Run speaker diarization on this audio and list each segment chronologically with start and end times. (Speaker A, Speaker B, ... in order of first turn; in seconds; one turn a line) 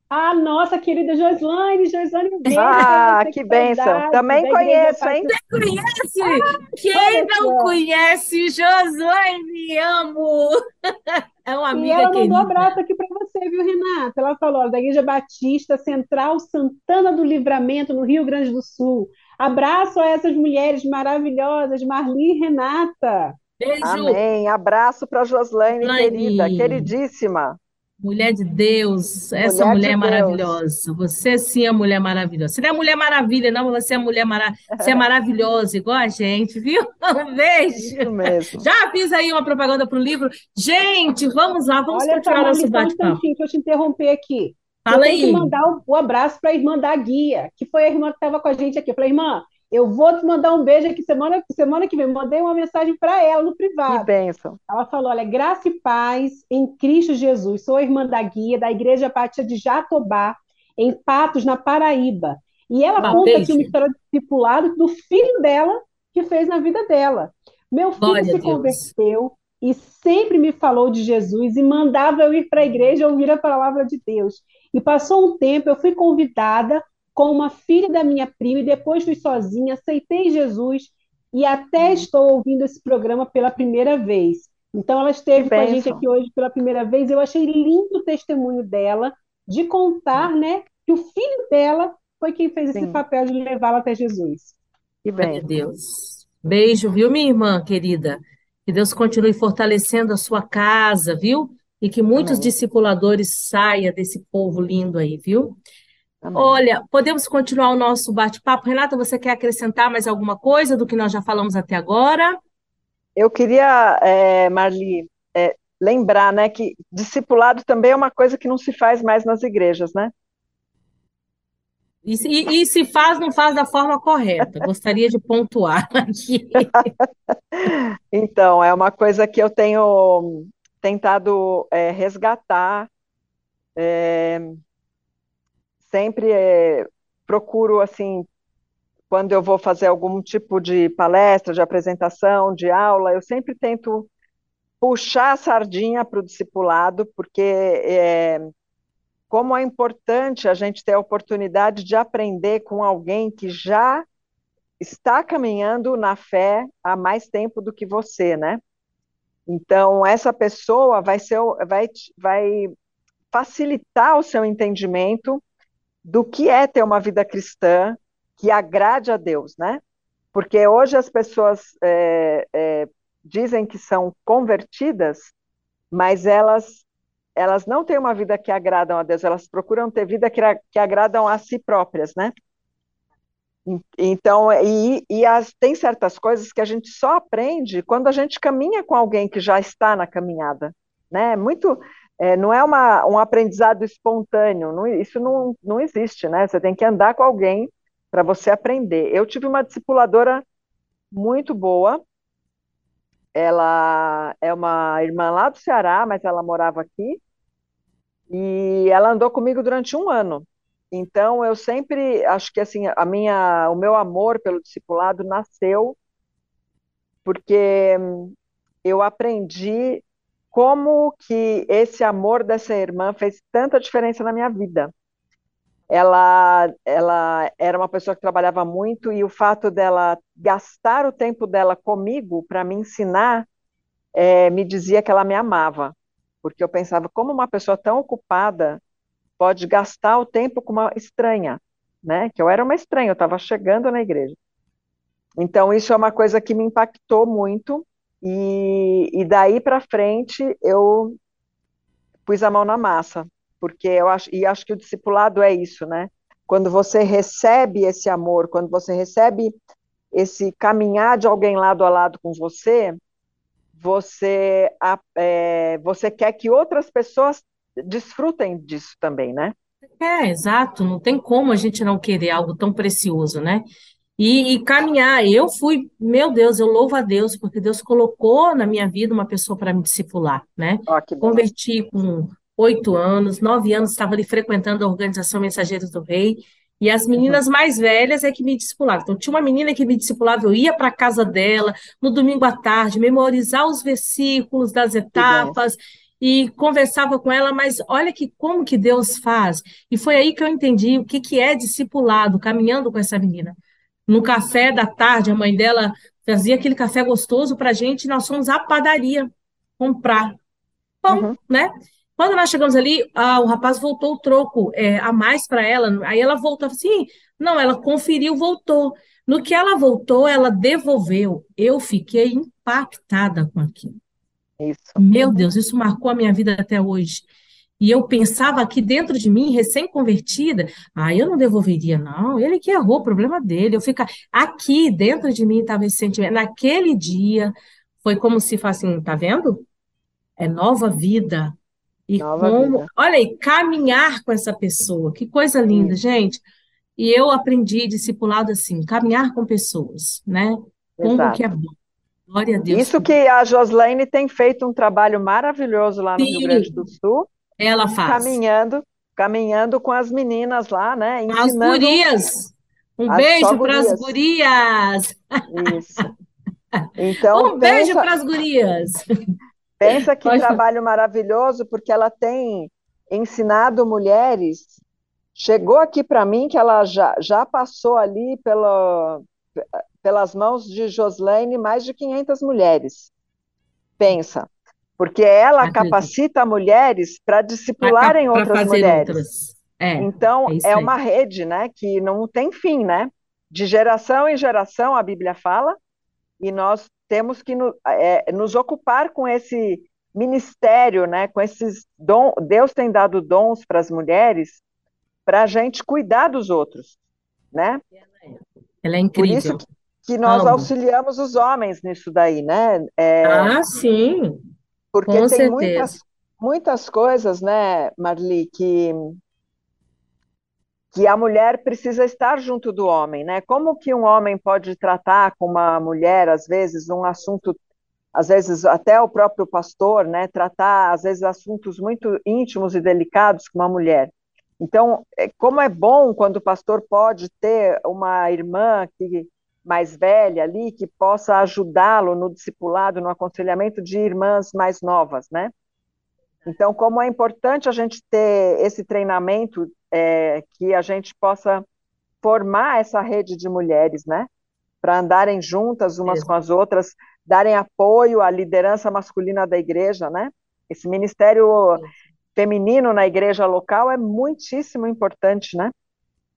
Speaker A: 0.1-5.3
Speaker B: 2.5-5.3
Speaker C: 5.3-12.8
Speaker A: 6.2-7.8
Speaker A: 11.7-23.4
Speaker C: 23.6-24.2
Speaker B: 23.8-27.6
Speaker C: 25.8-26.9
Speaker C: 28.0-43.2
Speaker B: 29.4-30.6
Speaker B: 34.7-35.0
Speaker B: 37.7-38.6
Speaker A: 41.9-54.1
Speaker C: 44.9-45.5
Speaker B: 53.9-54.6
Speaker A: 54.7-94.5
Speaker C: 63.0-63.7
Speaker C: 68.0-68.9
Speaker B: 81.8-82.1
Speaker B: 85.4-86.0
Speaker B: 92.7-93.0
Speaker B: 95.0-95.4
Speaker C: 95.2-105.6
Speaker B: 102.2-102.5
Speaker B: 106.2-106.6
Speaker C: 106.3-112.4
Speaker B: 113.2-120.1
Speaker C: 122.0-126.9
Speaker B: 127.6-132.9
Speaker B: 133.8-134.6
Speaker B: 135.8-138.3
Speaker B: 139.1-144.1
Speaker B: 144.8-148.4
Speaker B: 149.3-154.0
Speaker B: 154.8-158.6
Speaker B: 159.5-162.7
Speaker B: 163.3-165.4
Speaker B: 166.0-169.8
Speaker B: 170.3-175.3
Speaker B: 175.9-176.8
Speaker B: 177.3-182.3
Speaker B: 183.7-200.4
Speaker B: 201.1-202.0
Speaker B: 203.3-207.2
Speaker B: 208.3-215.9
Speaker B: 217.2-218.3
Speaker B: 218.8-224.9
Speaker B: 225.9-233.4
Speaker B: 234.1-238.8
Speaker B: 239.4-244.3
Speaker B: 245.4-251.2
Speaker B: 252.2-259.5
Speaker B: 260.1-263.0
Speaker B: 263.8-269.5
Speaker C: 270.0-273.6
Speaker C: 274.2-303.6
Speaker B: 280.9-281.5
Speaker B: 295.1-295.6
Speaker C: 304.1-310.4
Speaker C: 311.0-324.0
Speaker B: 311.1-311.3
Speaker B: 324.6-325.5
Speaker C: 325.0-327.2
Speaker C: 327.8-337.5
Speaker C: 338.0-339.6
Speaker C: 340.4-341.6
Speaker C: 342.1-346.4
Speaker B: 342.2-342.9
Speaker C: 347.0-351.7
Speaker B: 351.0-351.4
Speaker C: 352.3-353.1
Speaker B: 352.7-357.3
Speaker C: 356.2-356.8
Speaker C: 357.6-358.4
Speaker B: 358.0-362.0
Speaker C: 361.3-366.1
Speaker B: 363.1-364.1
Speaker B: 365.5-366.1
Speaker C: 366.7-369.0
Speaker B: 367.0-368.1
Speaker B: 369.8-374.8
Speaker C: 369.9-370.6
Speaker B: 375.4-383.1
Speaker B: 384.0-389.2
Speaker C: 385.6-386.1
Speaker C: 387.8-390.9
Speaker B: 390.0-395.8
Speaker B: 396.4-404.6
Speaker B: 405.2-406.9
Speaker B: 407.5-407.8
Speaker C: 408.0-409.6
Speaker B: 409.1-413.5
Speaker C: 410.2-410.7
Speaker C: 413.2-414.5
Speaker B: 414.9-419.2
Speaker C: 415.1-415.9
Speaker B: 420.9-427.6
Speaker B: 428.1-445.5
Speaker B: 446.5-451.6
Speaker B: 452.2-454.3
Speaker B: 454.8-465.7